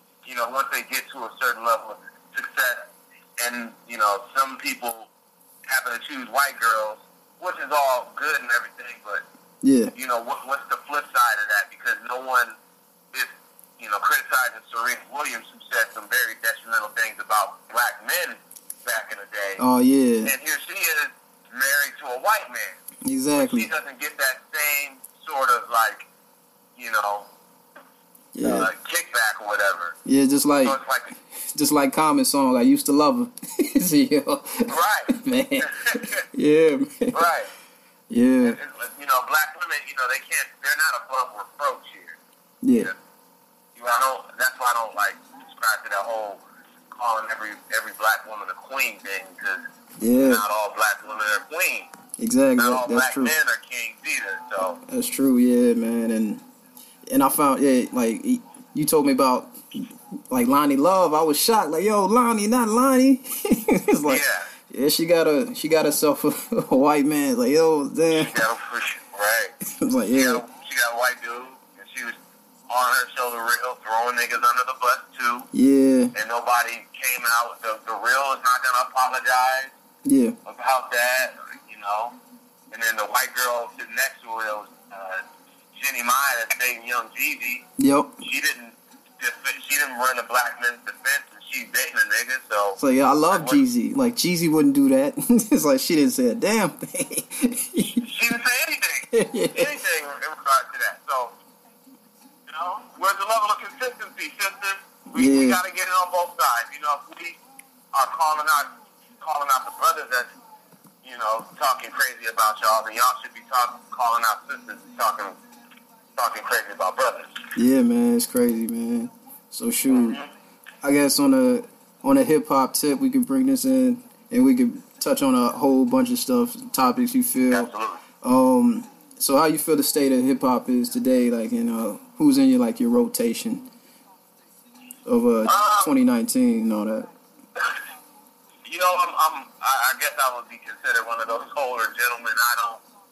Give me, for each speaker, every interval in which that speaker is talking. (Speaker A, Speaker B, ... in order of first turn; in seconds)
Speaker A: 0.2-5.1, 5.7-9.2, 9.9-12.6, 13.1-19.6, 20.2-22.8, 23.3-26.1, 26.8-27.3, 28.4-30.0, 30.6-31.1, 34.7-36.2, 37.1-37.5, 38.4-42.2, 43.8-49.6, 50.2-51.9, 52.6-54.8, 64.1-64.5, 68.1-69.5, 70.1-72.2, 72.7-75.5, 76.2-79.7, 80.5-82.2, 82.7-87.7, 88.2-92.8, 93.3-93.6, 98.0-101.3, 102.5-107.4, 107.9-110.3, 111.0-115.4, 116.2-117.4, 119.9-120.3, 127.5-128.0, 135.5-135.9, 138.7-142.8
Speaker B: 9.6-9.9, 19.6-20.3, 23.1-23.7, 28.4-28.7, 30.1-30.8, 31.5-37.2, 38.1-38.6, 42.6-42.9, 50.0-50.4, 52.2-53.4, 54.9-56.4, 57.1-68.5, 69.7-70.4, 75.5-76.1, 80.0-80.4, 87.8-88.2, 92.8-98.0, 99.1-99.8, 105.1-105.6, 117.5-120.2, 120.8-127.7, 128.2-133.7, 135.1-137.1